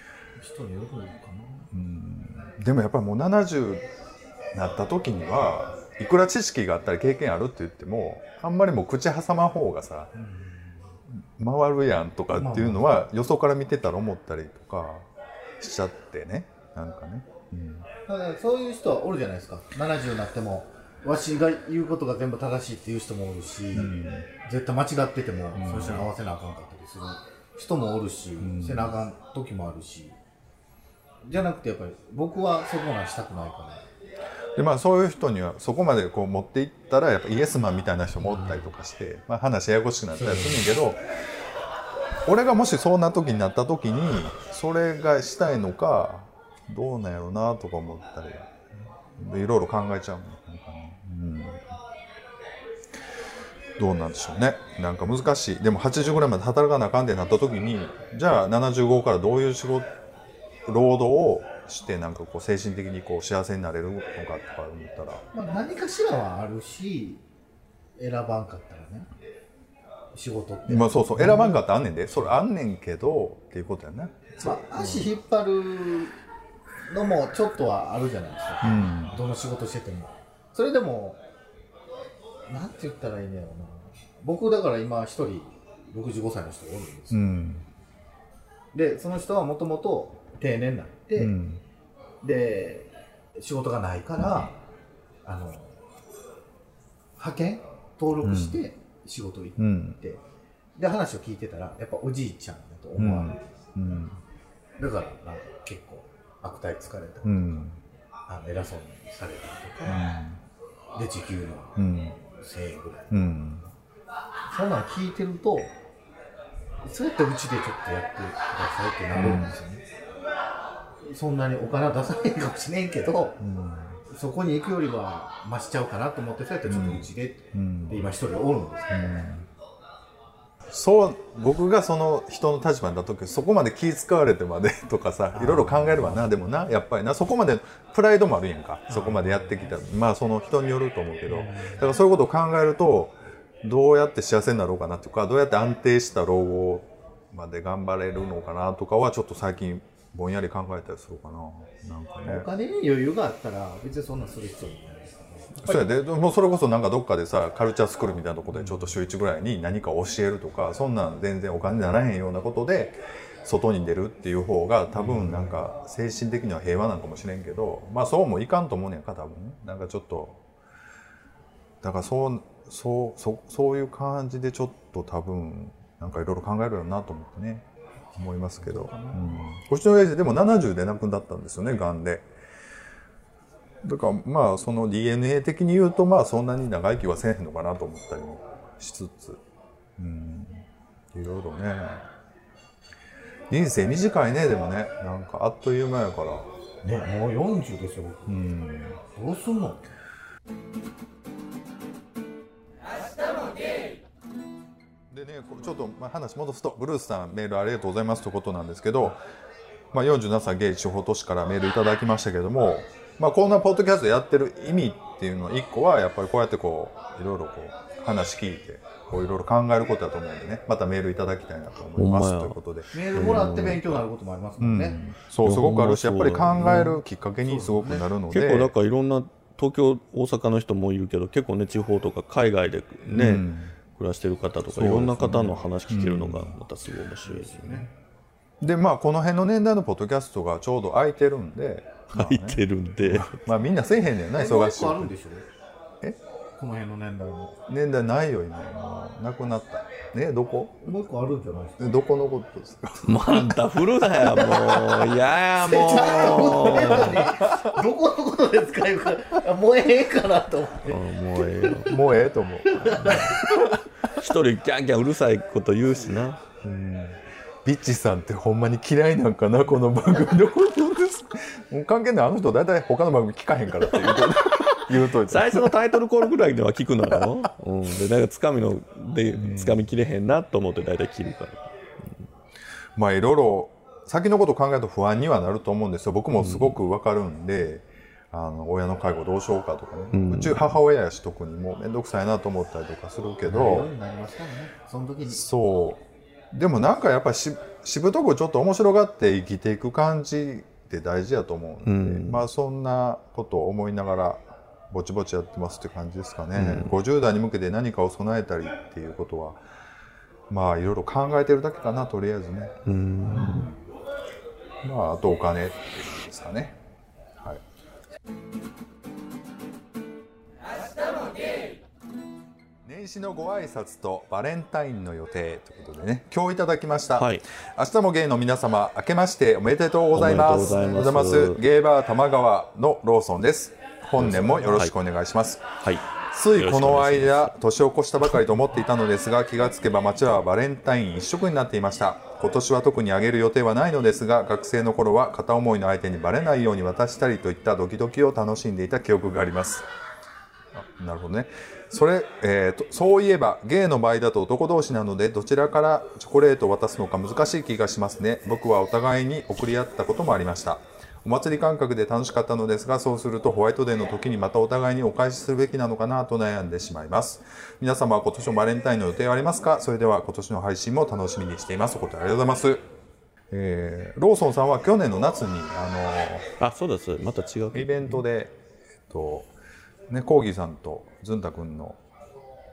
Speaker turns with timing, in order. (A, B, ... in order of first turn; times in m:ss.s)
0:00.4-0:01.7 A
0:01.7-0:03.8 B
0:04.5-0:10.1 B
0:10.2-0:10.7 A
0:11.1-0:15.1 B
0:12.3-0:13.0 A
0:15.6-0:17.9 B
0:18.1-0:30.2 A
0:23.8-0:24.3 B
0:25.6-0:26.1 B
0:28.4-0:29.0 B
0:31.2-0:33.8 A
0:34.6-0:41.0 B
0:40.2-0:40.6 A
0:42.3-0:48.5 B
0:49.2-0:51.7 B
0:53.8-0:59.9 B
1:00.7-1:05.2 B
1:05.3-1:07.2 A
1:08.0-1:09.1 A
1:10.1-1:12.3 A
1:10.7-1:15.1 B
1:14.4-1:16.2 A
1:16.9-1:21.2 A
1:18.6-1:19.2 B
1:22.5-1:27.2 A
1:27.1-1:27.6 B
1:28.7-1:31.4 A
1:31.2-1:31.6 B
1:32.2-1:34.6 A
1:35.2-1:35.8 A
1:37.2-1:40.2 A
1:38.2-1:38.6 B
1:39.6-1:40.0 B
1:40.8-1:43.4 A
1:43.0-1:44.2 B
1:44.8-1:47.6 A
1:47.2-1:47.8 B
1:48.3-1:50.1 A
1:49.9-1:50.4 B
1:51.0-1:53.1 A
1:51.8-1:52.2 B
1:53.1-1:53.7 B
1:54.5-1:55.8 A
1:56.8-1:59.8 A
1:59.1-1:59.6 B
2:01.0-2:03.4 A
2:03.4-2:04.0 B
2:04.1-2:09.2 A
2:06.7-2:08.0 B
2:08.9-2:09.5 B
2:10.7-2:32.5 B
2:15.3-2:16.5 A
2:18.9-2:19.8 A
2:21.3-2:21.9 A
2:32.3-2:35.9 A
2:35.6-2:50.4 B
2:51.8-3:02.3 B
2:58.6-2:59.5 A
3:03.8-3:09.4 B
3:10.0-3:12.1 B
3:13.5-3:16.5 B
3:16.8-3:18.4 A
3:18.3-3:19.0 B
3:19.0-3:19.8 A
3:25.1-3:29.2 B
3:29.9-3:44.0 B
3:42.0-3:42.6 C
3:42.9-3:45.0 A
3:43.1-3:44.0 C
3:44.6-3:48.7 B
3:45.4-3:46.9 C
3:46.6-3:48.1 A
3:48.3-3:57.9 C
3:53.1-3:53.8 B
3:54.7-3:56.6 B
3:57.2-3:57.9 A
3:58.6-4:05.1 B
4:02.1-4:03.4 C
4:04.3-4:05.5 A
4:06.6-4:07.6 A
4:07.7-4:14.6 B
4:10.8-4:11.9 A
4:13.0-4:17.3 C
4:15.6-4:22.1 A
4:17.0-4:17.7 B
4:20.9-4:21.9 C
4:21.9-4:23.5 B
4:22.6-4:23.7 A
4:23.0-4:23.5 C
4:24.0-4:26.4 C
4:26.6-4:35.9 B
4:33.9-4:42.2 C
4:39.4-4:39.8 B
4:43.0-4:53.9 B
4:46.3-4:46.8 C
4:50.1-4:50.7 C
4:53.5-4:55.4 A
4:55.3-5:09.6 B
5:01.8-5:02.4 C
5:06.6-5:07.0 C
5:10.5-5:13.8 B
5:12.8-5:13.7 C
5:14.8-5:16.8 B
5:22.8-5:35.8 B
5:27.2-5:27.4 C
5:30.1-5:31.6 C
5:34.2-5:34.9 C
5:35.8-5:37.6 C
5:36.3-5:49.9 B
5:50.7-6:12.8 B
6:13.5-6:16.5 B
6:16.6-6:18.2 C
6:17.7-6:18.6 B
6:19.1-6:19.5 B
6:20.1-6:22.0 B